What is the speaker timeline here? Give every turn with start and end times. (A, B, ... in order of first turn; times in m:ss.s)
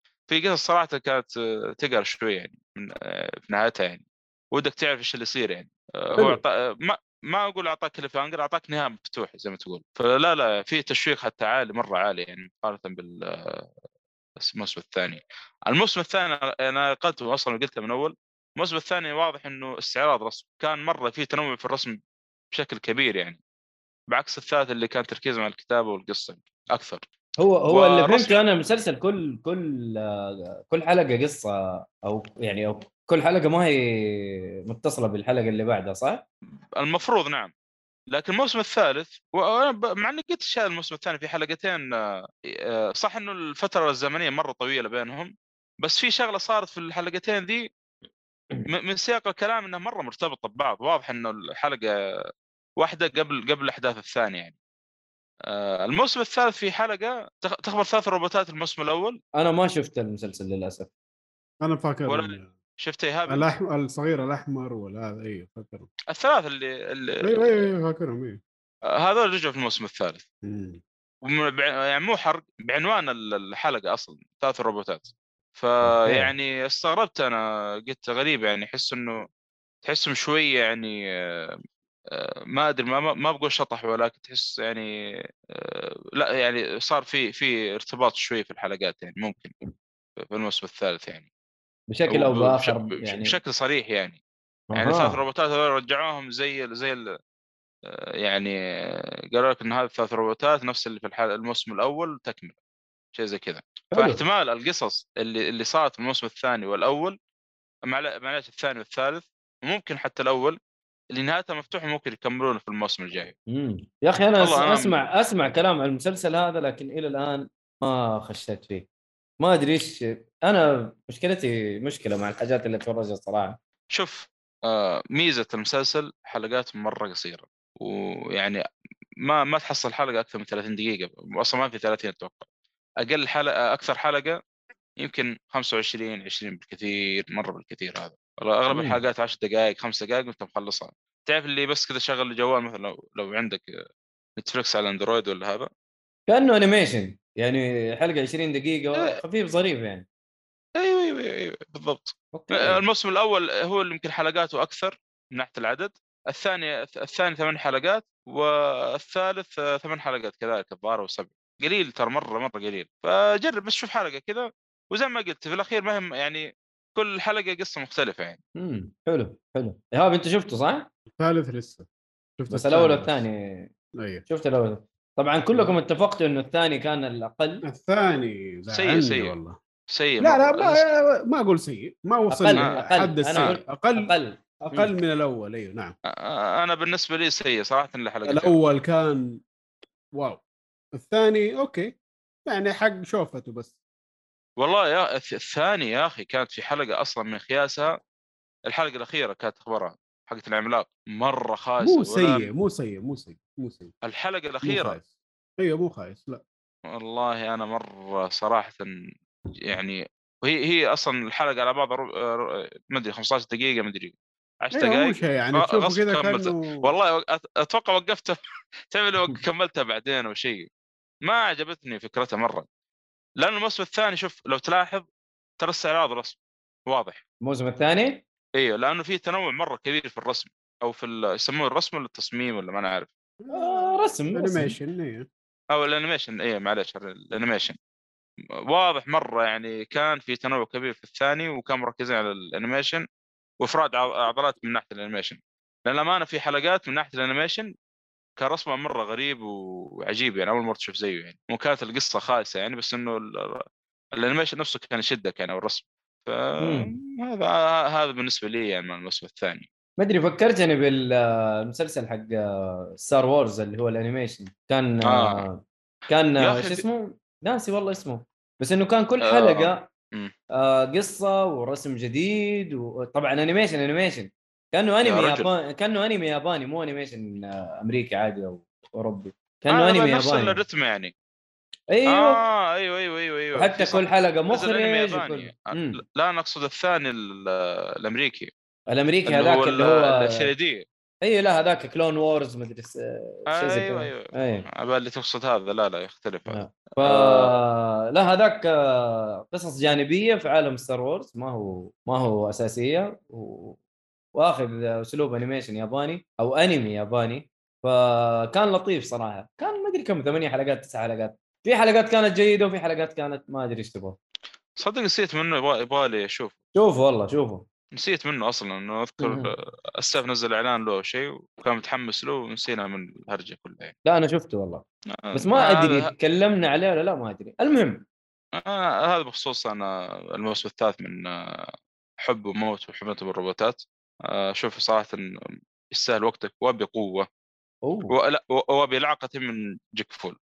0:00.3-0:13.7 A
0:14.4-0:22.0 A
0:22.5-0:23.4 A
0:24.1-0:27.0 A
0:27.4-0:36.2 B
0:27.7-0:28.4 A
0:36.8-0:37.5 A
0:38.1-0:47.7 A
0:48.6-0:51.9 A
0:52.8-0:54.6 A
0:55.5-0:59.2 A
0:59.4-1:00.9 B
1:01.6-1:02.5 C
1:02.1-1:03.5 A
1:03.3-1:05.9 C
1:06.1-1:07.7 A
1:07.2-1:08.4 C
1:08.9-1:10.2 A
1:10.4-1:10.8 C
1:11.2-1:19.3 A
1:16.0-1:16.3 B
1:19.8-1:21.6 A
1:22.1-1:24.9 A
1:25.5-1:29.5 A
1:30.2-1:31.3 A
1:31.9-1:33.4 B
1:32.1-1:34.2 A
1:34.7-1:35.2 B
1:34.7-1:37.1 A
1:37.8-1:42.5 A
1:43.1-1:47.2 A
1:43.9-1:44.2 B
1:47.9-1:50.6 A
1:51.1-1:53.3 A
1:53.5-1:58.8 B
1:54.4-1:55.0 A
1:59.4-2:03.6 B
2:03.9-2:08.6 A
2:09.2-2:12.5 A
2:13.0-2:14.4 A
2:15.0-2:23.7 A
2:18.7-2:19.0 B
2:24.4-2:25.7 A
2:26.3-2:30.0 B
2:30.8-2:48.4 A
2:32.3-2:32.8 B
2:48.6-2:50.9 B
2:51.1-2:51.9 C
2:52.4-2:53.2 C
2:52.5-2:53.7 B
2:54.0-2:54.2 C
2:54.3-2:57.6 B
2:57.6-2:59.6 C
2:58.7-2:59.4 A
2:59.9-3:00.8 A
3:00.2-3:05.9 C
3:02.3-3:04.9 B
3:06.1-3:08.5 A
3:08.2-3:09.4 C
3:10.1-3:10.4 C
3:10.9-3:12.0 C
3:12.5-3:13.8 C
3:14.6-3:17.9 A
3:18.7-3:22.5 A
3:21.8-3:23.9 C
3:24.0-3:25.0 A
3:24.6-3:26.4 C
3:26.9-3:28.9 A
3:29.7-3:38.4 A
3:34.7-3:36.9 C
3:38.9-3:40.7 A
3:41.2-3:42.7 A
3:43.4-3:45.1 A
3:45.6-3:47.2 A
3:47.4-3:48.2 B
3:48.6-3:53.1 A
3:53.4-3:55.3 C
3:53.5-3:54.8 B
3:55.7-3:57.8 A
3:58.7-4:03.0 A
4:03.6-4:07.7 A
4:08.4-4:13.6 A
4:14.2-4:19.7 A
4:16.6-4:16.9 B
4:20.0-4:22.4 B
4:23.0-4:29.9 B
4:25.0-4:25.5 A
4:26.4-4:26.8 A
4:29.2-4:30.3 A
4:30.6-4:40.6 B
4:35.0-4:35.5 A
4:39.7-4:41.1 A
4:41.9-4:42.4 B
4:42.0-4:48.5 A
4:43.5-4:46.0 B
4:48.9-4:50.5 B
4:49.2-4:50.8 A
4:51.2-4:54.6 B
4:53.5-4:57.6 A
4:56.5-5:03.8 B
5:04.3-5:14.2 B
5:14.8-5:16.5 A
5:16.7-5:17.6 B
5:17.9-5:23.9 A
5:19.2-5:19.5 B
5:24.0-5:28.0 B
5:25.1-5:26.1 A
5:28.5-5:35.2 A
5:35.9-5:37.3 A
5:37.8-5:38.1 B
5:38.1-5:40.4 A